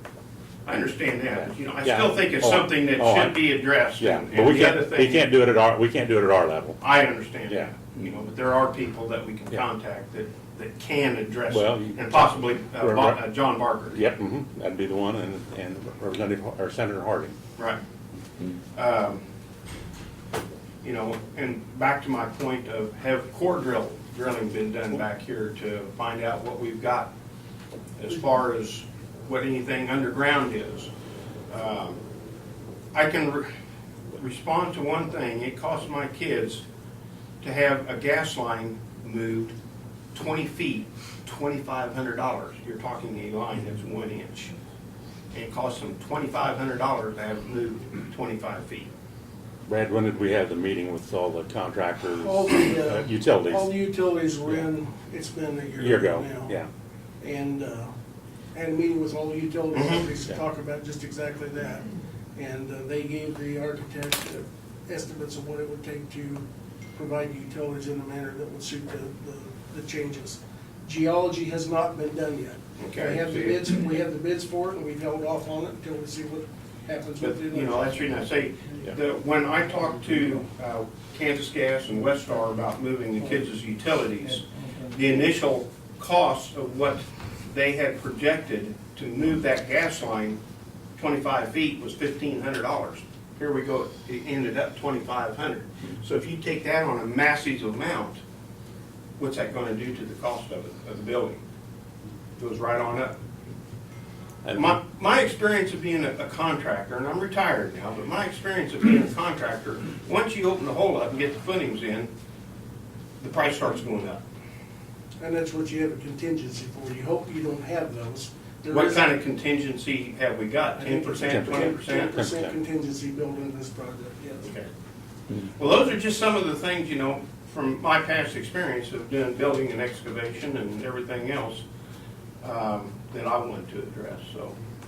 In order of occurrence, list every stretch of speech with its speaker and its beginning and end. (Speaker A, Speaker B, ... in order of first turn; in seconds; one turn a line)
Speaker A: 0.7-5.3
Speaker B: 1.4-3.4
Speaker B: 4.0-6.8
Speaker A: 6.8-14.0
Speaker B: 11.5-13.2
Speaker B: 13.9-17.3
Speaker A: 18.7-19.2
Speaker A: 20.8-27.1
Speaker A: 28.0-30.9
Speaker A: 31.5-32.0
Speaker A: 32.9-33.5
Speaker A: 34.1-36.6
Speaker A: 37.4-39.5
Speaker A: 40.1-44.5
Speaker A: 45.3-48.9
Speaker B: 49.7-53.7
Speaker C: 52.0-56.6
Speaker B: 55.8-56.7
Speaker C: 57.2-57.9
Speaker C: 58.5-77.9
Speaker A: 59.7-60.0
Speaker A: 72.8-73.8
Speaker A: 77.2-90.4
Speaker A: 91.0-98.2
Speaker A: 99.2-101.4
Speaker A: 102.4-103.1
Speaker B: 104.4-104.8
Speaker A: 104.5-112.1
Speaker A: 113.2-114.2
Speaker C: 115.2-119.2
Speaker A: 118.7-122.2
Speaker C: 120.7-124.5
Speaker B: 121.2-122.5
Speaker A: 124.4-124.7
Speaker A: 125.4-131.6
Speaker A: 132.4-134.6